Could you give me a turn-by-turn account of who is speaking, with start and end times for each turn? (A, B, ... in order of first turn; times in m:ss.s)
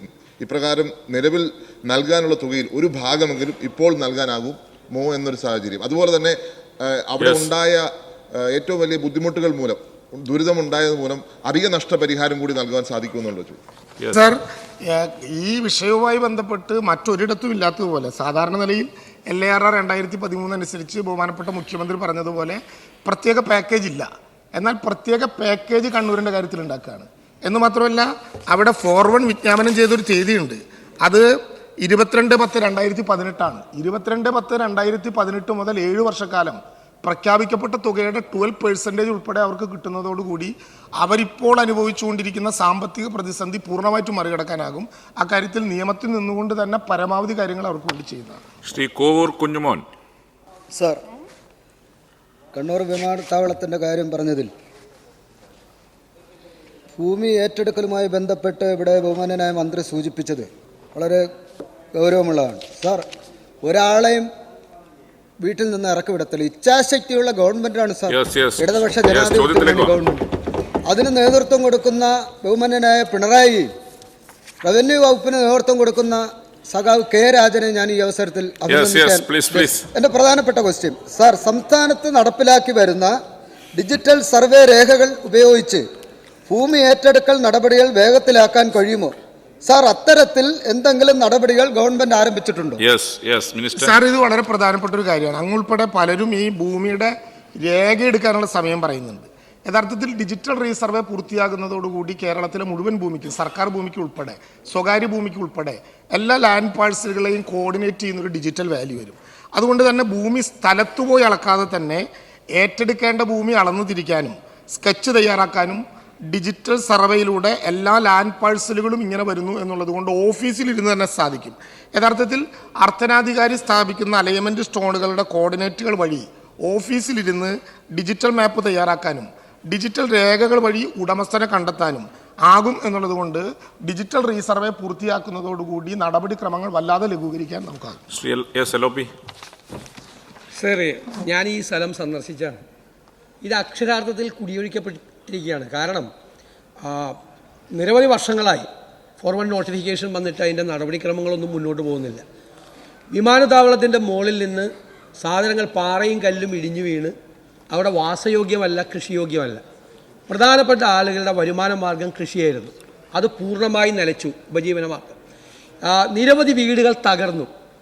0:00.4-0:13.6 A
0:07.2-0:07.5 B
0:14.1-0:48.4 C
0:48.6-0:49.8 B
0:50.7-0:51.0 D
0:52.5-0:54.5 D
0:57.0-1:01.3 D
1:02.0-1:03.1 D
1:03.6-1:04.3 D
1:05.4-1:10.2 D
1:08.1-1:10.0 B
1:10.9-1:13.7 D
1:14.6-1:23.2 D
1:18.7-1:19.9 B
1:23.8-1:25.8 D
1:26.5-1:32.8 D
1:32.8-1:34.0 B
1:33.8-2:18.0 C
2:18.1-2:19.1 B
2:20.6-2:22.6 E
2:23.4-2:26.1 E
2:26.8-2:27.2 E
2:27.7-2:28.7 E
2:29.2-2:32.2 E
2:33.1-2:37.2 E
2:37.7-2:39.6 E
2:40.3-2:45.2 E
2:45.8-2:47.5 E